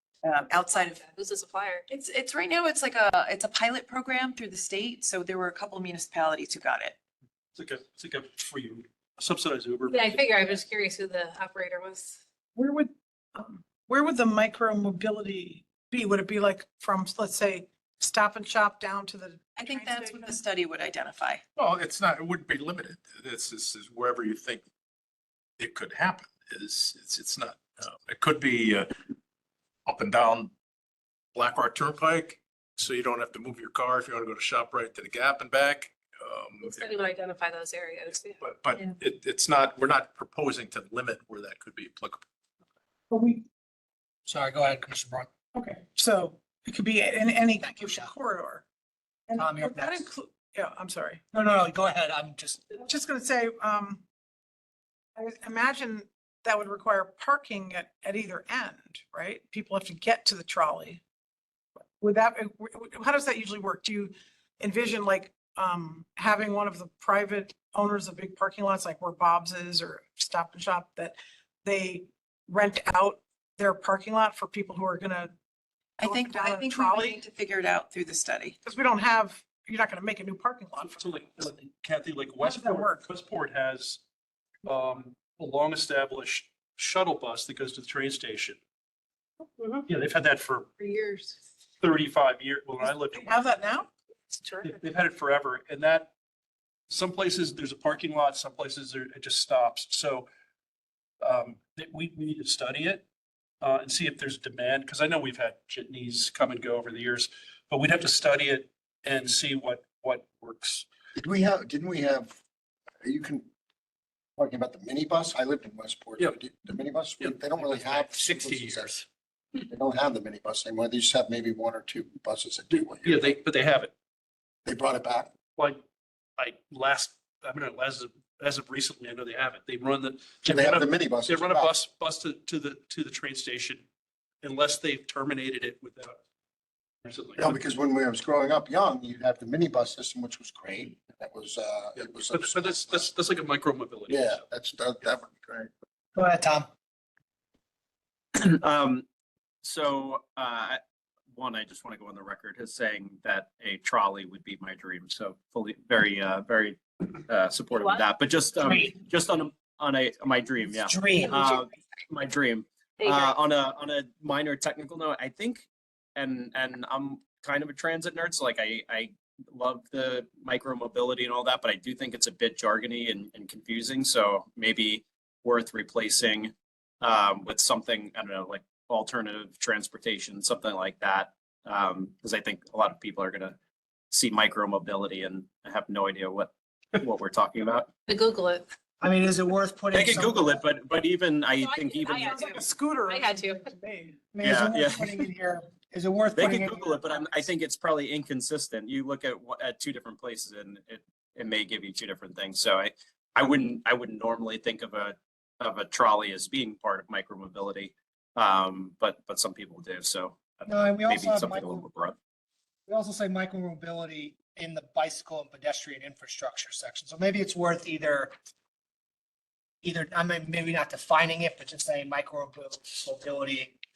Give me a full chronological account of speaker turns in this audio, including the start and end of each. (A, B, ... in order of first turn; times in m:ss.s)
0:00.2-0:01.0 A
0:00.5-0:01.8 B
0:01.9-0:07.0 A
0:07.5-0:10.2 C
0:09.9-0:12.2 B
0:12.5-0:20.4 D
0:19.6-0:21.4 A
0:21.6-0:24.6 E
0:25.6-0:28.9 E
0:29.8-0:30.5 E
0:31.3-0:36.8 E
0:36.6-0:38.4 B
0:38.4-0:42.2 E
0:43.1-0:43.4 D
0:44.2-0:45.3 F
0:45.5-0:48.6 D
0:47.6-0:48.1 F
0:49.3-0:51.2 D
0:49.4-0:50.0 F
0:51.3-0:52.7 F
0:52.7-0:54.0 D
0:55.2-1:01.0 D
1:02.0-1:15.3 D
1:16.0-1:18.6 A
1:16.0-1:17.2 D
1:18.6-1:21.2 D
1:20.8-1:24.0 C
1:22.4-1:23.0 D
1:24.6-1:28.6 C
1:29.9-1:30.7 C
1:30.8-1:31.3 B
1:31.8-1:33.3 C
1:32.9-1:34.7 D
1:34.6-1:36.1 C
1:36.9-1:40.3 C
1:41.2-1:43.0 C
1:43.6-1:50.8 C
1:51.2-1:52.3 G
1:53.0-1:53.5 G
1:54.4-1:59.0 G
1:57.0-1:59.0 C
1:59.7-2:03.3 G
2:02.7-2:03.9 C
2:04.6-2:05.3 G
2:05.6-2:05.8 C
2:06.4-2:13.8 C
2:10.5-2:11.7 G
2:14.4-2:16.2 C
2:17.0-2:17.6 C
2:17.4-2:23.1 G
2:21.9-2:24.4 C
2:24.1-2:25.7 G
2:26.2-2:26.7 F
2:28.4-2:29.0 H
2:29.6-2:30.8 H
2:31.3-3:03.6 H
2:37.7-2:38.0 B
2:38.6-2:38.9 F
2:40.8-2:41.6 F
2:43.0-2:43.3 B
3:04.1-3:07.9 H
3:08.1-3:08.6 B
3:09.0-3:10.6 F
3:09.9-3:12.6 H
3:11.6-3:14.2 D
3:12.0-3:13.7 B
3:14.3-3:17.0 F
3:14.4-3:15.1 H
3:16.3-3:32.1 H
3:30.7-3:31.9 F
3:32.9-3:38.3 F
3:39.8-3:43.8 F